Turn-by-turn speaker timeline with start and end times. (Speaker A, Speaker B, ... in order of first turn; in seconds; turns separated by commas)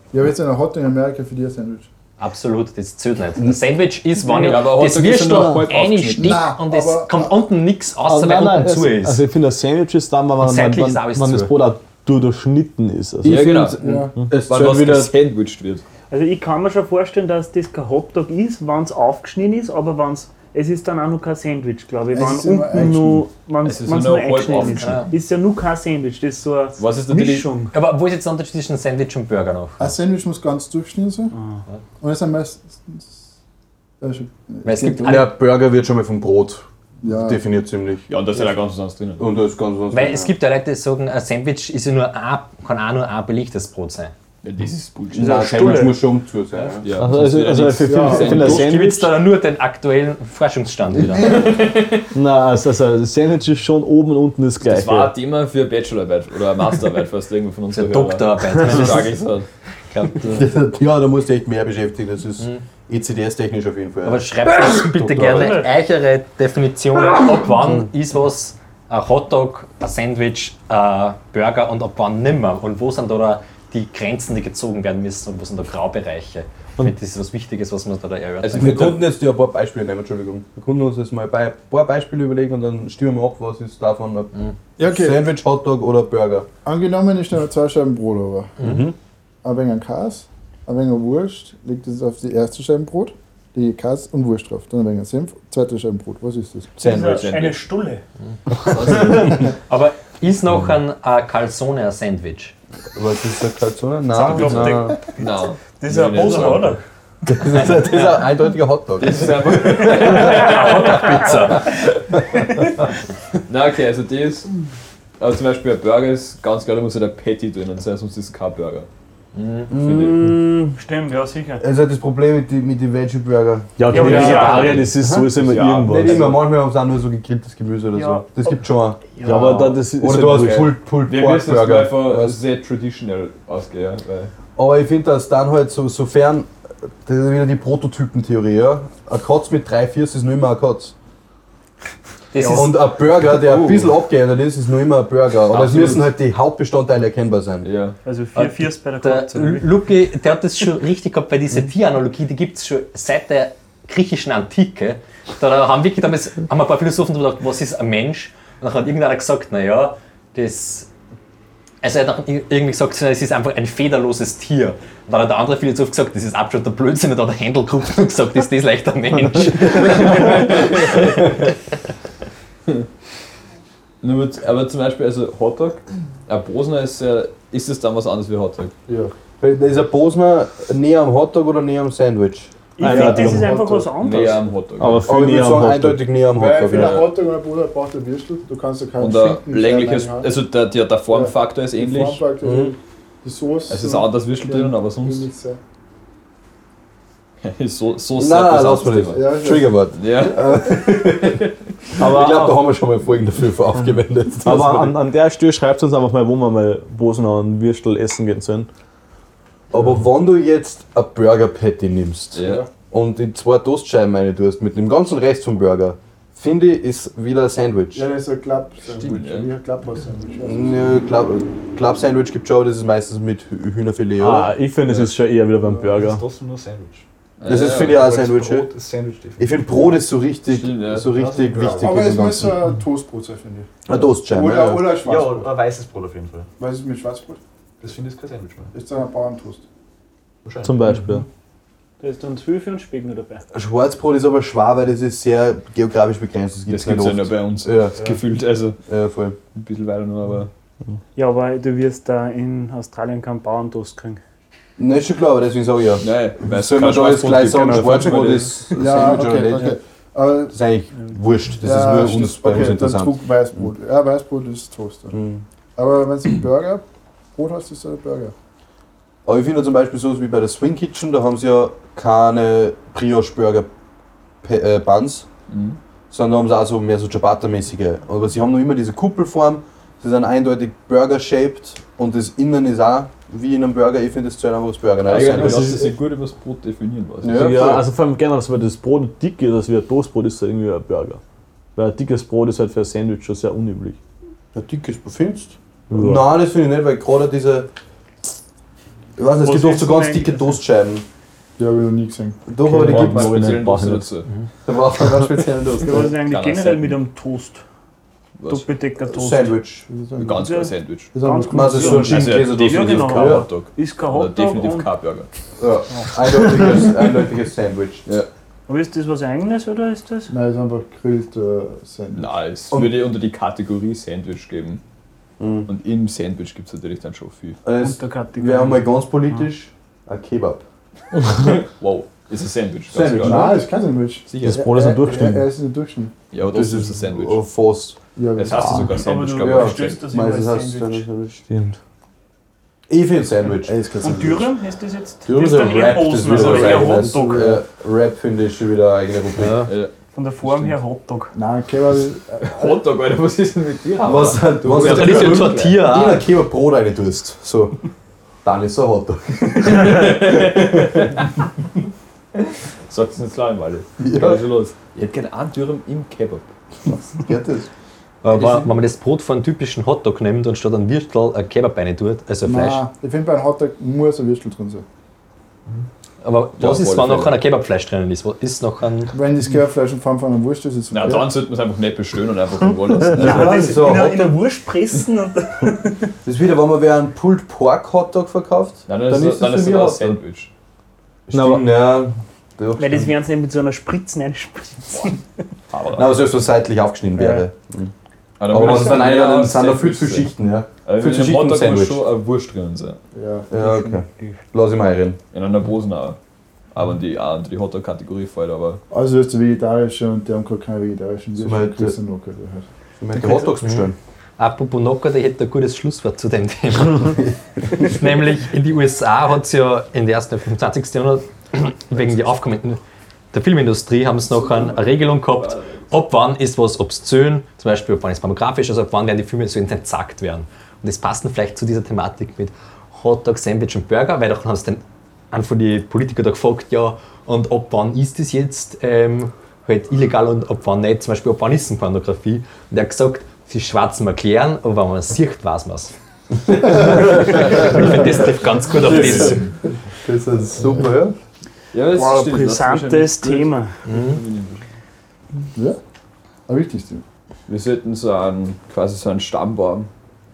Speaker A: 0.1-1.9, Speaker B: 2.2-9.2, Speaker C: 4.3-6.5, Speaker A: 6.1-7.4, Speaker D: 8.1-14.3, Speaker B: 10.4-11.5, Speaker E: 13.2-15.1, Speaker C: 13.2-13.8, Speaker A: 13.8-14.2, Speaker C: 14.5-15.8, Speaker F: 16.1-27.7, Speaker A: 22.1-23.3, Speaker C: 23.6-25.1, Speaker B: 24.7-25.1, Speaker C: 26.8-27.5, Speaker B: 27.7-29.9, Speaker A: 29.8-31.3, Speaker A: 32.0-33.1, Speaker A: 34.0-35.2, Speaker B: 34.6-35.3, Speaker E: 35.0-38.1, Speaker A: 37.0-37.4, Speaker C: 38.1-39.3, Speaker E: 39.2-40.3, Speaker B: 39.9-44.1, Speaker C: 44.4-45.9, Speaker F: 45.1-46.0, Speaker E: 45.1-46.9, Speaker C: 46.8-48.7, Speaker D: 47.0-49.1, Speaker A: 47.9-48.6, Speaker B: 48.2-51.6, Speaker A: 51.0-51.6, Speaker C: 51.2-52.0, Speaker D: 52.1-55.1, Speaker C: 54.6-59.5, Speaker B: 57.7-59.2, Speaker B: 59.9-60.5, Speaker E: 60.2-65.5, Speaker B: 62.4-62.6, Speaker B: 64.0-79.0, Speaker F: 65.2-65.7, Speaker C: 78.4-79.0, Speaker E: 78.6-86.5, Speaker A: 84.8-85.3, Speaker A: 86.7-88.6, Speaker E: 88.6-89.0, Speaker A: 89.4-96.8, Speaker C: 96.8-97.6, Speaker E: 96.8-97.3, Speaker F: 96.8-98.0, Speaker B: 98.6-102.5, Speaker E: 102.9-105.0, Speaker F: 104.1-106.8, Speaker C: 104.3-106.8, Speaker E: 107.3-110.5, Speaker C: 109.0-111.2, Speaker B: 110.0-111.7, Speaker C: 113.5-114.5, Speaker C: 115.2-118.9, Speaker B: 119.3-119.7, Speaker E: 119.7-120.2, Speaker C: 119.8-120.2, Speaker F: 120.0-121.6, Speaker E: 121.6-125.3, Speaker D: 123.8-126.4, Speaker F: 123.9-124.8, Speaker B: 124.0-124.9, Speaker C: 124.4-124.8, Speaker C: 125.3-126.3, Speaker E: 125.8-132.4, Speaker F: 127.9-128.5, Speaker D: 129.2-130.8, Speaker C: 130.3-134.3, Speaker E: 134.6-136.5, Speaker E: 137.0-140.9, Speaker B: 142.3-142.8, Speaker E: 142.4-147.7, Speaker C: 143.3-143.9, Speaker B: 145.5-146.1, Speaker C: 147.6-148.0, Speaker F: 148.1-149.7, Speaker B: 149.0-160.9, Speaker B: 161.8-171.0, Speaker C: 169.8-171.3, Speaker C: 174.0-178.7, Speaker A: 178.9-179.1, Speaker E: 179.4-182.6, Speaker F: 182.8-184.4, Speaker D: 182.8-183.6, Speaker A: 183.1-183.9, Speaker C: 184.0-185.1, Speaker D: 184.8-186.0, Speaker E: 185.1-187.1, Speaker A: 186.3-190.4, Speaker C: 189.0-192.2, Speaker A: 191.1-195.6, Speaker E: 192.4-192.8, Speaker C: 193.7-195.3, Speaker C: 197.4-199.2, Speaker E: 198.2-205.0, Speaker A: 199.1-199.7, Speaker C: 200.0-200.8, Speaker D: 202.2-202.5, Speaker D: 204.4-208.7, Speaker E: 209.7-218.1, Speaker C: 212.3-212.7, Speaker A: 217.9-220.8, Speaker C: 219.0-219.5, Speaker E: 220.4-224.5, Speaker D: 224.2-226.2, Speaker G: 225.9-229.9, Speaker C: 227.4-228.0, Speaker E: 227.5-228.7, Speaker E: 229.4-232.6, Speaker C: 230.5-231.1, Speaker G: 231.0-232.1, Speaker A: 231.6-233.7, Speaker E: 233.9-234.9, Speaker A: 234.3-235.5, Speaker G: 235.0-236.5, Speaker A: 236.6-237.4, Speaker G: 237.8-238.7, Speaker A: 238.7-239.6, Speaker G: 240.4-240.9, Speaker D: 240.6-241.2, Speaker F: 242.0-243.4, Speaker E: 243.5-248.0, Speaker C: 246.7-248.8, Speaker E: 248.9-249.4, Speaker C: 249.6-250.5, Speaker F: 251.2-254.2, Speaker E: 254.8-259.8, Speaker C: 256.0-258.8, Speaker A: 258.8-260.6, Speaker E: 260.5-263.6, Speaker A: 261.6-265.2, Speaker E: 265.1-265.4, Speaker A: 265.8-266.8, Speaker A: 267.4-268.3, Speaker E: 269.2-273.7, Speaker E: 274.4-275.3, Speaker C: 275.5-275.8, Speaker E: 276.1-285.9, Speaker C: 285.1-287.7, Speaker D: 285.2-285.8, Speaker E: 287.2-287.9, Speaker D: 287.3-291.2, Speaker D: 291.8-294.0, Speaker E: 294.5-297.7, Speaker D: 295.9-296.3, Speaker E: 299.2-301.1, Speaker F: 299.4-300.6, Speaker A: 301.6-302.4, Speaker E: 302.5-303.6, Speaker D: 302.6-304.1, Speaker C: 302.7-304.3, Speaker E: 304.6-306.1, Speaker F: 305.8-307.6, Speaker C: 306.0-307.0, Speaker C: 308.4-308.7, Speaker F: 308.5-309.6, Speaker E: 309.1-309.9, Speaker A: 309.9-310.5, Speaker C: 310.2-311.1, Speaker F: 310.4-314.9, Speaker A: 311.1-312.2, Speaker E: 311.5-313.5, Speaker C: 311.9-315.3, Speaker E: 315.6-318.1, Speaker F: 318.7-320.3, Speaker A: 320.3-322.3, Speaker C: 322.1-324.8, Speaker E: 322.7-323.0, Speaker E: 325.4-325.7, Speaker C: 325.7-327.6, Speaker E: 327.6-330.6, Speaker F: 327.8-329.5, Speaker C: 331.4-333.6, Speaker E: 332.9-333.6, Speaker A: 333.2-336.1, Speaker C: 334.3-334.6, Speaker D: 334.4-335.5, Speaker C: 336.3-337.4, Speaker E: 336.5-338.0, Speaker A: 338.2-339.0, Speaker C: 338.4-340.0, Speaker F: 338.9-341.1, Speaker E: 339.4-341.4, Speaker D: 341.5-341.8, Speaker E: 342.9-343.8, Speaker A: 343.6-344.5, Speaker F: 344.0-347.5, Speaker E: 345.3-349.7, Speaker C: 346.3-347.0, Speaker A: 346.9-347.6, Speaker B: 349.4-349.7, Speaker C: 349.7-350.8, Speaker F: 350.1-351.3, Speaker A: 351.3-352.8, Speaker C: 352.4-355.9, Speaker E: 354.0-357.8, Speaker B: 354.7-356.2, Speaker E: 358.4-361.1, Speaker C: 359.8-361.2, Speaker C: 362.4-366.5, Speaker E: 364.0-364.4, Speaker E: 366.9-367.7, Speaker B: 368.2-372.8, Speaker C: 368.3-368.6, Speaker A: 372.4-374.9, Speaker B: 376.2-379.1, Speaker C: 376.6-377.4, Speaker A: 379.1-381.3, Speaker C: 380.9-383.7, Speaker F: 383.1-386.1, Speaker E: 383.2-384.4, Speaker E: 386.2-390.2, Speaker C: 388.9-390.5, Speaker E: 391.3-393.1, Speaker F: 392.8-395.2, Speaker C: 395.7-396.2, Speaker E: 395.9-397.9, Speaker F: 397.2-397.5, Speaker C: 398.4-400.3, Speaker E: 398.5-402.1, Speaker C: 400.9-403.0, Speaker A: 403.1-403.7, Speaker E: 403.5-405.2, Speaker C: 405.3-406.2, Speaker C: 406.7-408.8, Speaker A: 408.9-412.7, Speaker E: 411.4-412.0, Speaker E: 413.0-414.0, Speaker B: 414.4-417.3, Speaker B: 417.8-422.8, Speaker B: 423.3-445.9, Speaker C: 424.3-425.9, Speaker B: 446.6-449.5, Speaker E: 446.9-447.9, Speaker E: 448.8-451.1, Speaker C: 451.7-454.6, Speaker F: 451.9-453.8, Speaker B: 453.9-454.2, Speaker A: 456.5-457.0, Speaker C: 457.5-459.9